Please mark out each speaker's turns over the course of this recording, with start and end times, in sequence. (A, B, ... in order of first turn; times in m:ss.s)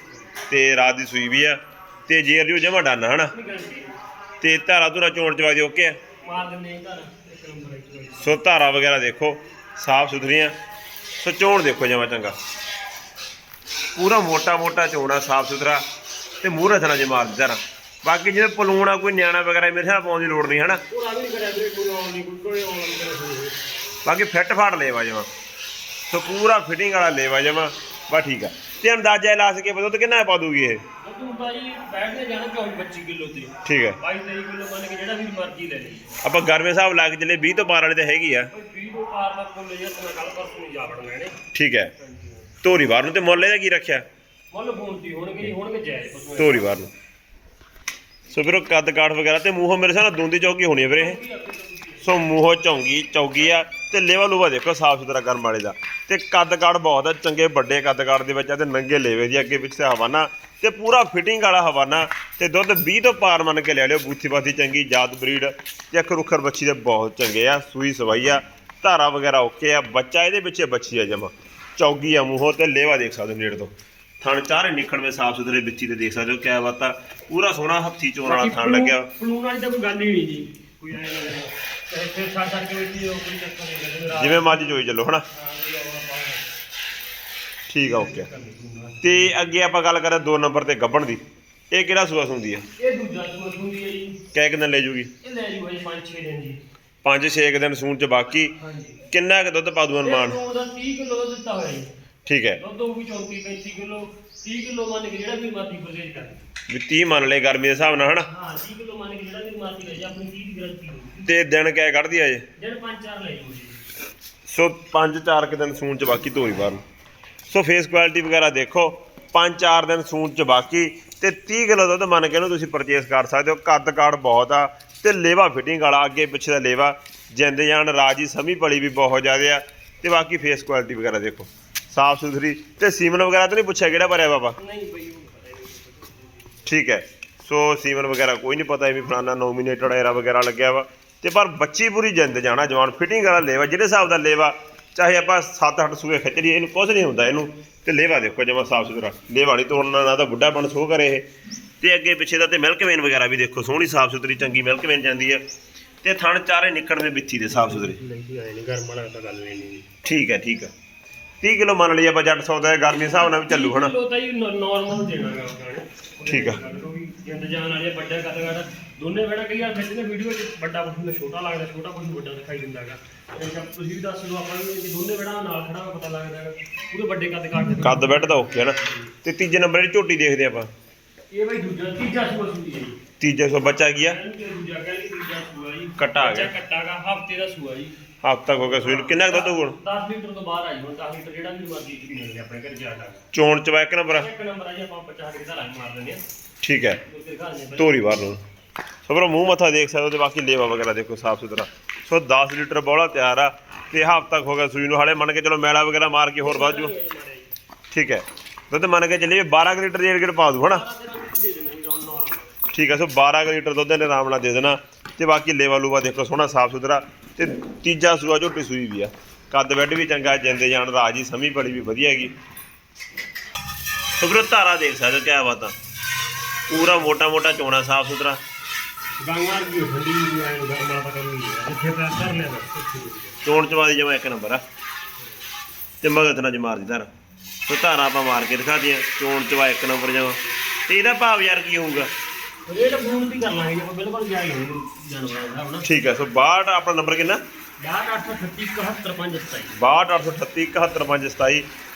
0:00.5-0:03.3 A
0:03.3-0:04.0 B
0:04.4-0:06.0 A
0:06.2-0:08.4 B
0:08.2-0:10.5 A
0:11.2-0:12.4 A
0:14.0-0:15.8 A
0:16.4-0:20.8 A
0:20.9-0:23.6 B
0:24.0-0:25.3 A
0:26.1-0:30.8 A
0:31.0-0:36.2 B
0:33.6-0:34.0 A
0:36.2-0:38.5 A
0:38.5-0:41.4 B
0:41.5-0:41.9 A
0:42.0-0:42.6 B
0:42.6-0:44.0 A
0:44.5-0:46.8 B
0:46.4-0:46.9 A
0:48.3-0:51.2 A
0:50.9-0:52.2 B
0:52.0-1:19.1 A
1:18.2-1:26.5 B
1:24.2-1:25.3 A
1:27.7-1:28.3 A
1:27.8-1:29.4 B
1:29.0-1:32.6 A
1:32.8-1:34.2 B
1:34.3-1:35.1 A
1:35.2-1:36.6 B
1:37.0-1:38.5 A
1:38.5-1:39.0 B
1:39.1-1:40.4 A
1:40.0-1:41.9 B
1:42.3-1:42.6 A
1:42.6-1:46.4 B
1:46.7-1:48.3 A
1:47.8-1:51.3 B
1:51.2-1:52.4 A
1:52.6-1:53.9 B
1:54.5-1:56.8 A
1:57.5-2:14.6 A
2:14.6-2:16.7 B
2:16.7-2:31.3 A
2:31.8-2:35.4 A
2:36.0-2:38.0 A
2:37.5-2:39.8 B
2:40.0-2:40.7 A
2:41.4-2:43.9 A
2:43.2-2:59.1 B
2:46.3-2:46.6 A
2:57.8-3:00.7 A
3:01.3-3:03.0 B
3:03.2-3:04.2 A
3:03.8-3:08.0 B
3:06.0-3:06.5 A
3:08.2-3:09.8 A
3:08.6-3:13.2 B
3:13.3-3:14.3 A
3:14.2-3:16.2 B
3:16.6-3:17.0 A
3:17.0-3:18.2 B
3:17.8-3:18.4 A
3:19.1-3:26.9 A
3:26.4-3:27.5 B
3:27.9-3:30.8 A
3:30.6-3:32.5 B
3:32.7-3:42.3 A
3:44.2-3:45.7 A
3:46.7-3:48.4 A
3:49.2-3:53.4 B
3:53.4-3:54.6 A
3:56.0-3:57.1 A
3:57.7-4:02.1 A
4:02.7-4:05.9 B
4:05.8-4:07.4 A
4:07.8-4:09.8 B
4:09.7-4:11.7 A